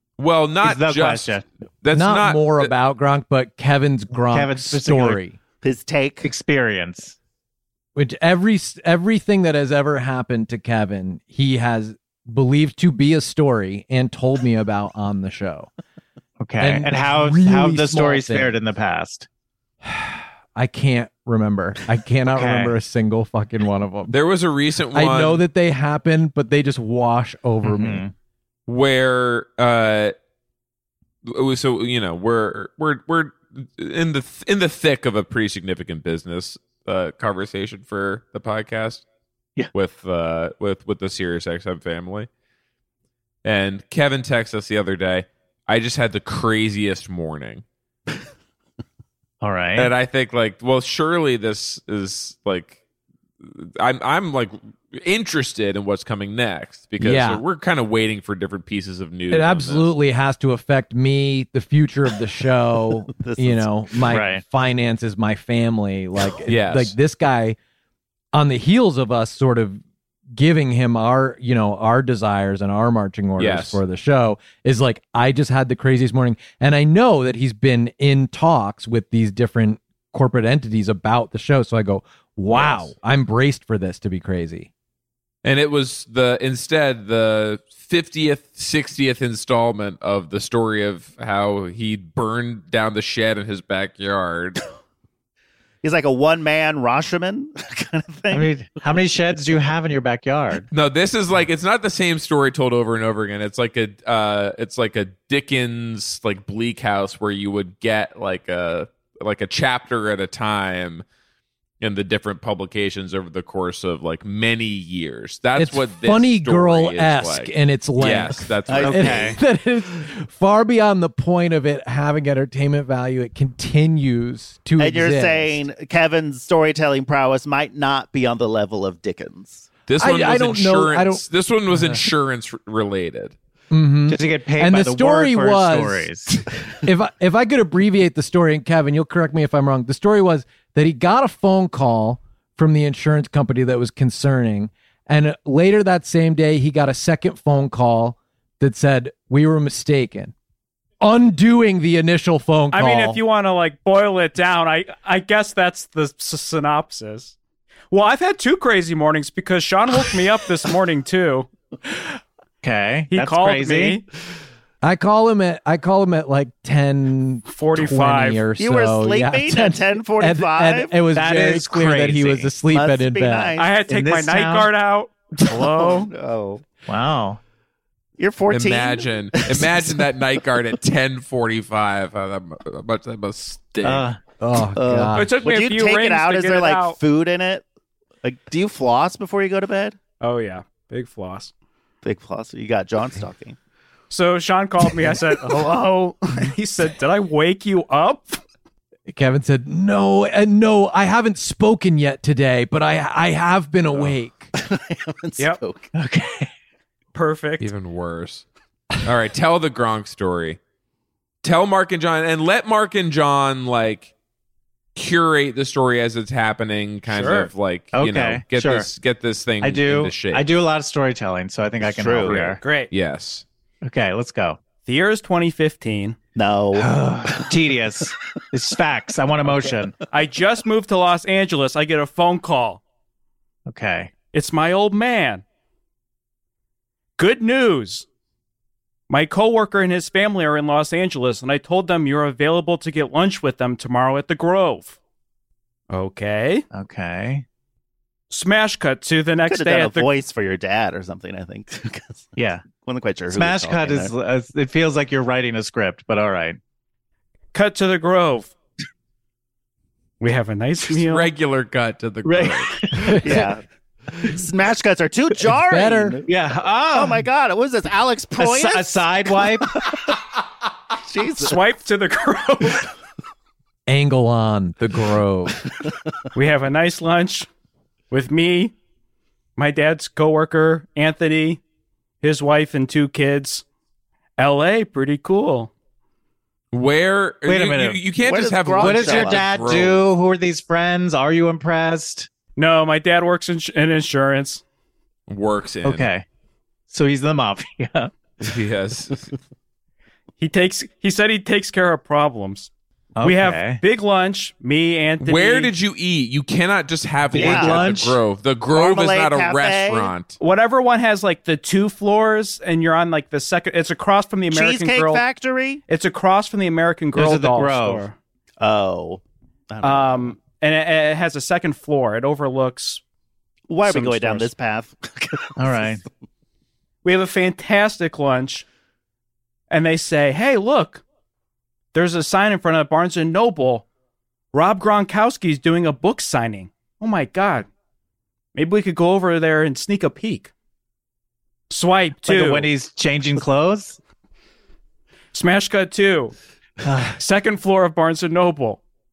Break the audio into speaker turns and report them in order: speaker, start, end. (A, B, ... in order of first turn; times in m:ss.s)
0:00.2-0:02.7 A
0:00.6-0:01.4 B
0:01.9-0:05.4 C
0:04.3-0:05.2 B
0:05.6-0:06.3 D
0:06.2-0:07.1 B
0:08.0-0:15.7 C
0:16.4-0:19.3 B
0:16.6-0:18.5 C
0:19.8-0:24.2 C
0:22.3-0:22.7 B
0:24.1-0:25.4 A
0:24.9-0:28.0 C
0:27.6-0:28.1 B
0:28.7-0:30.1 A
0:31.2-0:39.0 A
0:39.7-0:42.3 A
0:43.4-0:47.6 A
0:49.4-0:49.9 B
0:49.7-0:52.8 A
0:53.4-0:59.9 A
0:57.0-0:57.4 C
0:59.3-1:07.6 C
1:03.2-1:03.7 D
1:04.1-1:04.4 B
1:06.5-1:06.9 A
1:08.3-1:09.8 C
1:10.4-1:24.7 C
1:13.4-1:13.8 A
1:22.5-1:22.9 A
1:25.4-1:34.6 A
1:35.8-1:38.5 D
1:38.3-1:40.6 B
1:40.7-1:51.0 A
1:51.8-1:59.4 A
1:55.6-2:05.6 C
1:58.7-1:59.2 D
1:58.8-1:59.4 B
2:04.8-2:09.7 D
2:09.9-2:13.3 A
2:10.0-2:11.2 C
2:13.7-2:16.1 C
2:14.1-2:16.4 B
2:16.8-2:30.3 C
2:31.0-2:33.2 C
2:32.7-2:37.3 E
2:37.9-2:41.5 E
2:42.6-2:44.0 B
2:43.1-2:44.0 E
2:44.8-2:53.6 C
2:47.5-2:48.5 E
2:48.6-2:51.0 D
2:51.1-2:52.5 B
2:52.7-2:53.7 D
2:53.5-2:56.1 E
2:53.9-2:54.7 B
2:55.4-2:55.8 B
2:55.8-2:56.6 D
2:56.9-2:57.4 B
2:58.2-3:00.0 D
2:58.5-3:04.1 A
3:03.8-3:04.2 B
3:04.4-3:05.3 C
3:04.8-3:07.6 D
3:05.1-3:07.0 E
3:08.2-3:10.0 D
3:10.2-3:11.5 E
3:12.0-3:13.6 D
3:14.1-3:18.4 E
3:19.1-3:24.5 C
3:24.5-3:25.9 D
3:25.4-3:25.6 E
3:25.9-3:26.5 B
3:27.1-3:27.7 E
3:27.6-3:28.4 A
3:29.0-3:30.6 A
3:31.4-3:34.1 A
3:34.9-3:40.5 A
3:37.1-3:37.5 E
3:37.9-3:38.9 B
3:39.6-3:42.6 B
3:41.8-3:42.4 D
3:42.2-3:43.4 A
3:42.6-3:42.9 E
3:43.8-3:44.6 B
3:44.8-3:46.2 E
3:46.4-3:46.9 D
3:46.8-3:50.0 B
3:50.1-3:52.8 E
3:53.7-3:54.1 B
3:54.3-3:55.4 E
3:57.2-3:58.0 E
3:59.1-4:05.0 E
4:05.9-4:06.6 E
4:06.7-4:07.4 B
4:08.3-4:10.1 E
4:09.5-4:14.1 D
4:12.4-4:12.6 B
4:13.3-4:16.6 B
4:17.5-4:18.5 E
4:20.2-4:21.3 E
4:20.9-4:22.8 A
4:22.3-4:22.6 D
4:23.0-4:23.4 C
4:23.2-4:23.6 D
4:24.2-4:26.3 D
4:25.6-4:26.2 C
4:26.3-4:27.2 B
4:26.9-4:30.1 D
4:28.4-4:29.8 B
4:31.0-4:31.6 D
4:31.4-4:32.9 E
4:33.9-4:35.6 C
4:36.3-4:37.5 E
4:38.1-4:38.7 E
4:39.6-4:41.6 E
4:42.2-4:43.6 E
4:44.4-4:45.7 E
4:46.7-4:50.1 A
4:47.4-4:48.0 B
4:48.2-4:49.7 D
4:48.8-4:52.3 B
4:52.6-4:54.6 E
4:55.3-4:56.1 A
4:55.8-4:56.2 B
4:56.9-4:58.1 B
4:58.4-4:59.3 A
5:00.4-5:02.7 E
5:03.2-5:03.8 B
5:03.2-5:05.7 E
5:05.2-5:10.4 A
5:07.3-5:08.2 B
5:07.4-5:07.9 D
5:08.7-5:10.1 D
5:10.4-5:15.2 E
5:14.5-5:15.8 D
5:15.9-5:18.1 E
5:17.1-5:18.1 B
5:18.6-5:20.3 D
5:19.8-5:23.0 E
5:23.7-5:26.0 D
5:23.8-5:24.5 E
5:25.6-5:26.0 B
5:27.0-5:28.6 E
5:29.7-5:31.0 E
5:31.9-5:33.8 E
5:34.5-5:37.7 E
5:38.5-5:40.5 E
5:41.7-5:42.7 E
5:42.2-5:44.0 B
5:45.3-5:46.3 E
5:46.8-5:47.1 B
5:47.1-5:48.8 E